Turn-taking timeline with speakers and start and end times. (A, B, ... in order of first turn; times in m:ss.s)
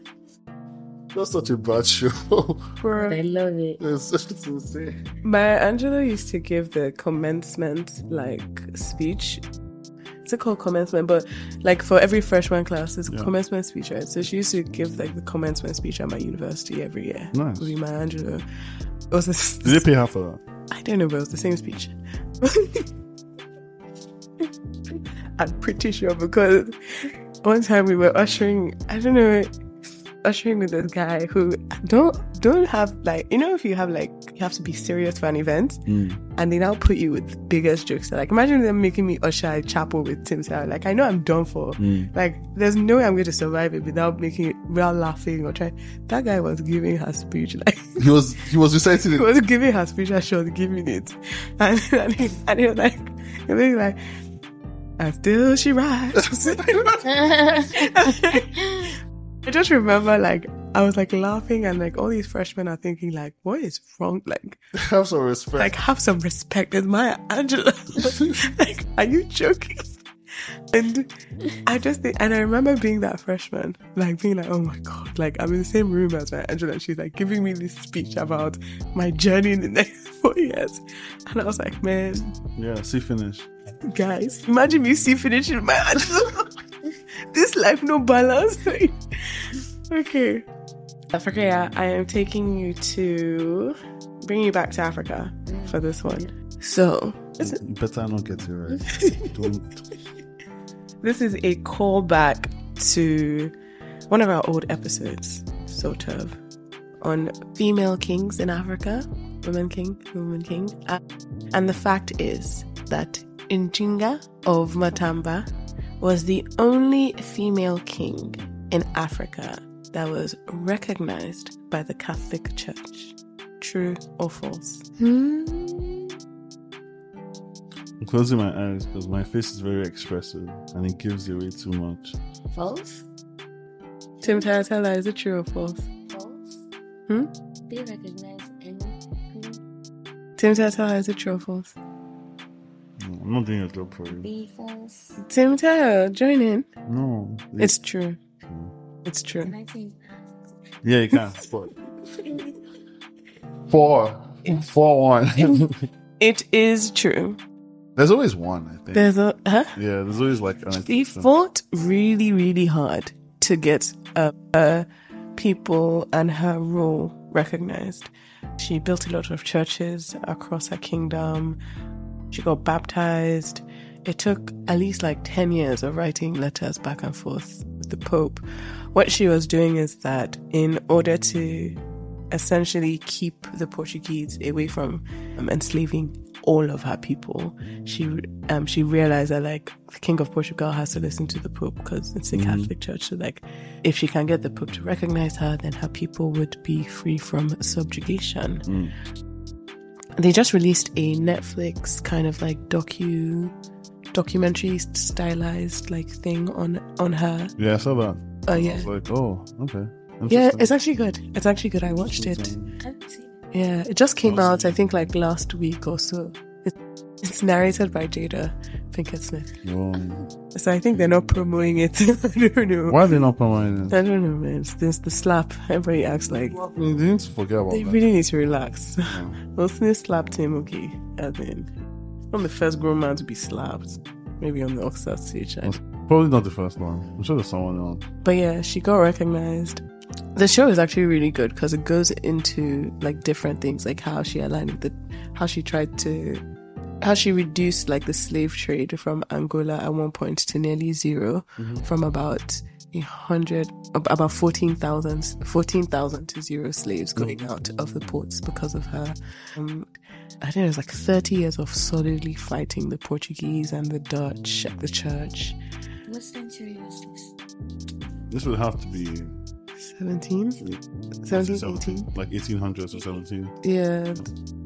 0:01.1-0:02.7 A
0:02.8-0:03.2 B
0:03.0-0:03.8 C
0:03.8-0:05.0 A
0:05.2-0:09.4 B
0:10.2-0:18.4 B
0:17.3-0:17.7 A
0:19.1-0:19.9 B
0:19.6-0:20.4 A
0:20.7-0:22.9 B
0:25.4-0:29.5 B
0:30.2-0:35.8 B
0:35.9-0:36.2 A
0:36.4-0:48.0 B
0:41.8-0:42.1 A
0:48.0-0:49.3 A
0:49.1-0:54.0 B
0:55.0-1:04.6 B
0:56.5-0:56.8 A
0:57.2-0:58.0 C
1:04.7-1:05.7 A
1:05.6-1:10.0 B
1:10.7-1:11.1 B
1:11.6-1:22.3 B
1:22.6-1:23.5 A
1:23.9-1:26.5 B
1:27.3-1:30.5 B
1:31.1-1:37.6 B
1:35.5-1:36.3 C
1:37.4-1:39.8 A
1:38.9-1:39.3 B
1:41.0-1:43.5 B
1:44.1-1:46.4 B
1:47.0-1:51.0 B
1:51.5-1:55.5 B
1:56.0-2:04.9 B
2:05.0-2:06.1 C
2:08.0-2:12.2 A
2:12.5-2:13.0 C
2:14.2-2:14.6 C
2:14.2-2:15.9 B
2:16.1-2:16.6 C
2:17.7-2:19.6 C
2:20.4-2:21.8 B
2:23.0-2:24.3 A
2:24.1-2:25.2 C
2:25.2-2:26.7 B
2:26.9-2:27.8 A
2:27.6-2:28.2 B
2:28.5-2:28.7 A
2:29.0-2:29.5 B
2:29.4-2:30.5 C
2:30.8-2:31.7 A
2:33.7-2:35.9 A
2:36.2-2:37.4 B
2:38.0-2:39.1 A
2:38.9-2:39.8 B
2:39.8-2:41.3 A
2:40.8-2:51.6 B
2:52.3-3:01.8 B
3:02.3-3:18.7 B
3:12.3-3:12.7 A
3:18.7-3:19.0 A
3:20.2-3:23.5 B
3:24.1-3:27.6 B
3:27.6-3:30.7 A
3:28.5-3:28.9 B
3:30.3-3:32.5 B
3:31.9-3:32.8 A
3:32.8-3:33.4 C
3:33.5-3:39.6 B
3:34.2-3:34.8 A
3:39.6-3:40.3 A
3:40.5-3:43.1 B
3:42.9-3:44.0 A
3:43.9-3:46.6 B
3:46.4-3:48.0 A
3:47.7-3:51.7 B
3:49.0-3:49.4 A
3:52.3-3:55.8 B
3:55.6-3:58.0 A
3:58.2-3:59.8 B
4:00.4-4:06.4 B
4:07.0-4:25.6 B
4:11.6-4:11.8 A
4:17.2-4:17.5 A
4:26.1-4:27.3 C
4:28.3-4:29.4 A
4:29.8-4:30.6 B
4:31.2-4:32.1 B
4:31.3-4:33.6 A
4:33.6-4:34.3 B